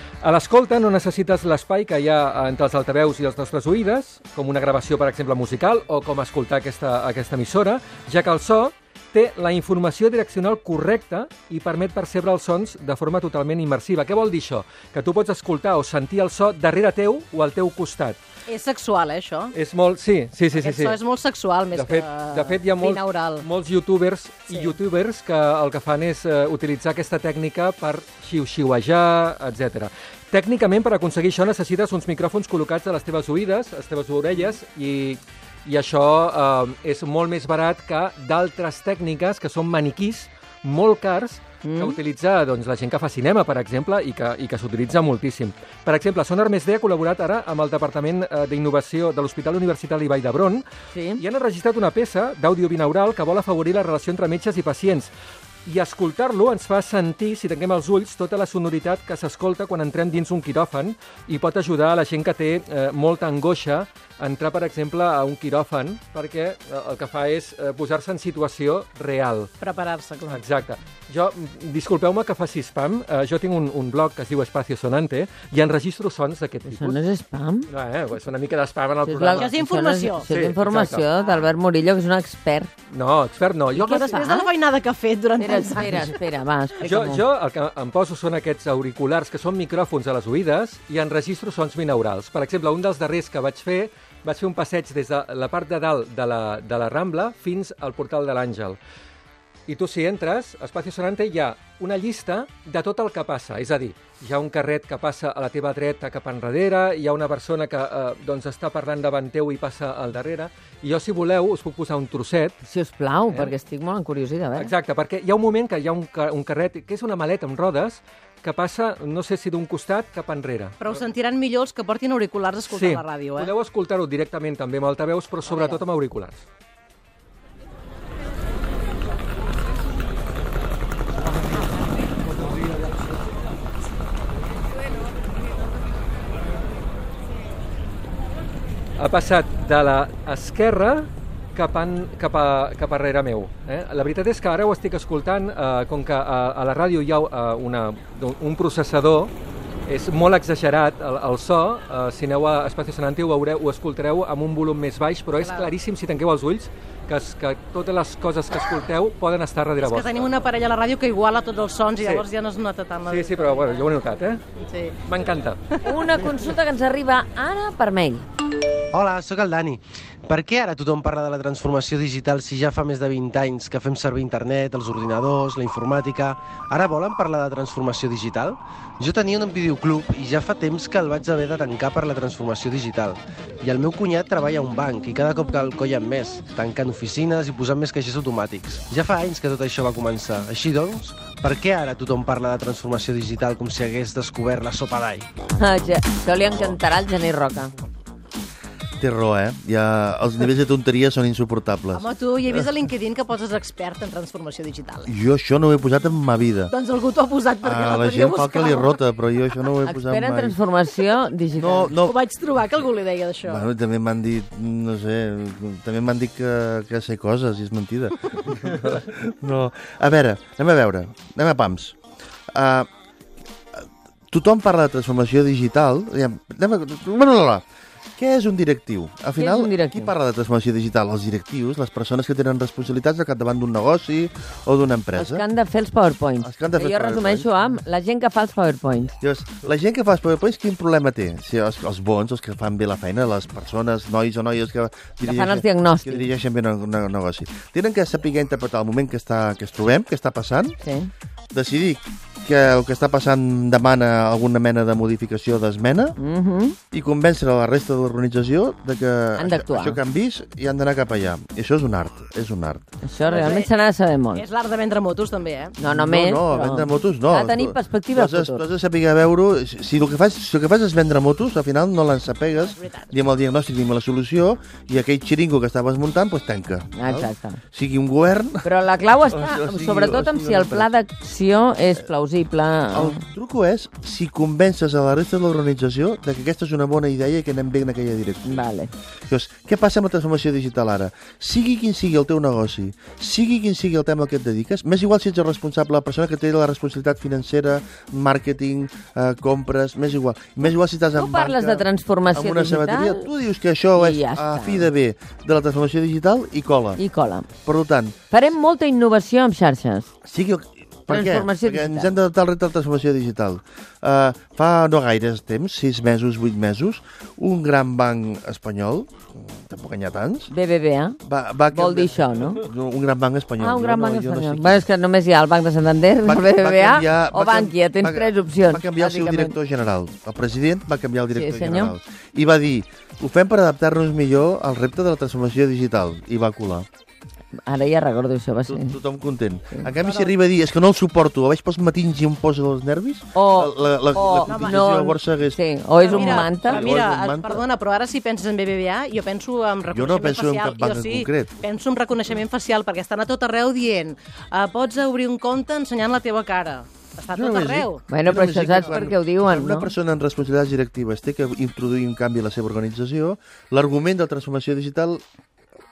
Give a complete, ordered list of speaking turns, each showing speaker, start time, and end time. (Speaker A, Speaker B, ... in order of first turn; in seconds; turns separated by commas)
Speaker A: 0.2-18.2, Speaker B: 18.5-19.5, Speaker A: 19.5-21.0, Speaker B: 20.5-23.5, Speaker A: 21.7-50.6, Speaker B: 24.5-24.8, Speaker C: 41.6-42.0, Speaker C: 50.9-51.2, Speaker A: 51.2-55.1, Speaker A: 55.7-69.5, Speaker B: 69.6-70.4, Speaker A: 70.3-77.0, Speaker C: 76.7-77.7, Speaker A: 77.7-79.5, Speaker C: 79.0-82.7, Speaker B: 79.3-80.3, Speaker A: 80.3-81.1, Speaker A: 82.9-84.3, Speaker B: 83.8-86.1, Speaker C: 85.4-87.2, Speaker A: 86.8-98.8, Speaker A: 99.7-112.6, Speaker C: 112.7-114.7, Speaker A: 113.3-113.5, Speaker A: 114.5-120.8, Speaker B: 120.8-123.5, Speaker A: 122.7-126.5, Speaker A: 139.0-149.3, Speaker A: 149.9-160.3, Speaker B: 155.4-155.7, Speaker B: 159.8-163.9, Speaker A: 162.0-162.3, Speaker A: 163.1-164.4, Speaker B: 164.6-165.0, Speaker A: 165.1-165.6, Speaker C: 165.8-168.3, Speaker D: 168.9-195.2, Speaker C: 195.6-197.7, Speaker E: 199.0-202.1, Speaker B: 201.9-205.1, Speaker E: 205.1-206.7, Speaker B: 206.7-209.0, Speaker E: 207.6-210.6, Speaker C: 209.9-211.9, Speaker E: 211.6-212.2, Speaker B: 212.1-213.7, Speaker E: 213.4-222.0, Speaker E: 222.5-222.9, Speaker E: 224.3-227.6, Speaker E: 228.2-235.4, Speaker C: 229.4-230.1, Speaker C: 235.1-239.2, Speaker E: 236.4-237.5, Speaker E: 239.2-250.8, Speaker C: 245.2-246.3, Speaker C: 250.8-251.1, Speaker E: 251.5-256.1, Speaker C: 256.2-256.8, Speaker E: 256.9-262.8, Speaker C: 259.4-260.0, Speaker C: 263.1-264.4, Speaker B: 263.3-263.7, Speaker B: 264.4-265.8, Speaker C: 265.8-268.6, Speaker E: 265.8-278.7, Speaker B: 272.6-273.1, Speaker C: 277.0-277.6, Speaker C: 278.6-283.2, Speaker E: 279.3-280.9, Speaker E: 282.9-288.7, Speaker C: 288.4-288.9, Speaker E: 289.3-307.0, Speaker C: 301.1-303.3, Speaker C: 303.9-304.9, Speaker C: 307.0-307.5, Speaker E: 307.6-308.1, Speaker C: 308.3-310.1, Speaker E: 310.2-320.5, Speaker C: 311.1-312.2, Speaker C: 320.5-321.2, Speaker E: 321.2-324.9, Speaker C: 321.7-322.6, Speaker C: 323.6-329.6, Speaker E: 326.2-336.9, Speaker C: 331.3-331.9, Speaker C: 337.7-339.0, Speaker E: 338.7-347.6, Speaker B: 340.0-340.4, Speaker C: 343.4-346.8, Speaker B: 344.5-344.9, Speaker B: 346.0-358.0, Speaker E: 349.9-351.5, Speaker E: 357.3-365.2, Speaker C: 358.1-359.9